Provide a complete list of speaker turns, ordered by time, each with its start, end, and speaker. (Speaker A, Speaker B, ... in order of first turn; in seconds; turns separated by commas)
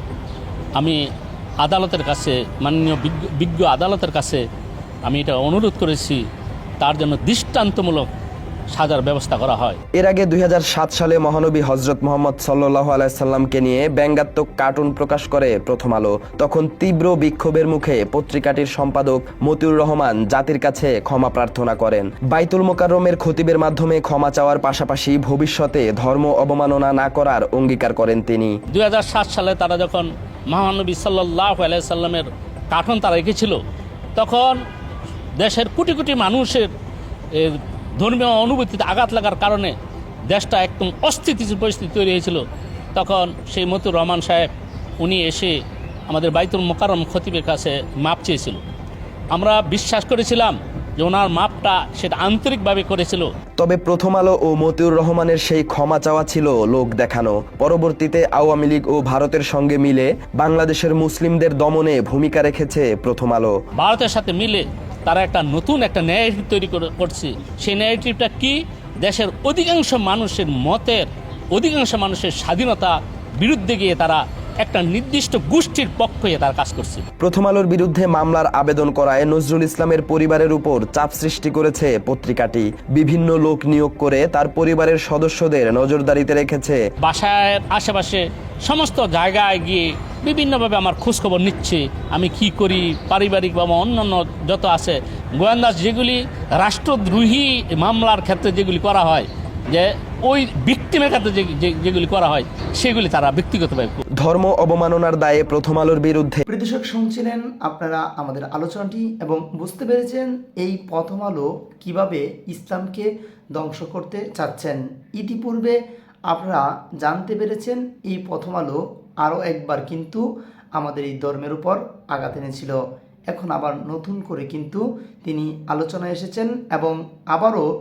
Speaker A: 0.8-1.0, Speaker A: 1.6-4.4, Speaker A: 5.0-6.2, Speaker A: 6.8-8.1, Speaker A: 8.7-9.8, Speaker B: 9.9-28.6, Speaker A: 28.7-33.6, Speaker A: 34.2-34.6, Speaker A: 35.4-36.7, Speaker A: 37.3-39.8, Speaker A: 40.3-42.4, Speaker A: 42.9-48.6, Speaker A: 49.3-53.3, Speaker B: 53.6-63.6, Speaker A: 63.8-77.0, Speaker B: 77.2-86.8, Speaker A: 87.0-104.0, Speaker B: 104.2-106.4, Speaker C: 106.5-115.8, Speaker C: 116.3-120.2, Speaker C: 120.8-122.8, Speaker C: 123.3-127.7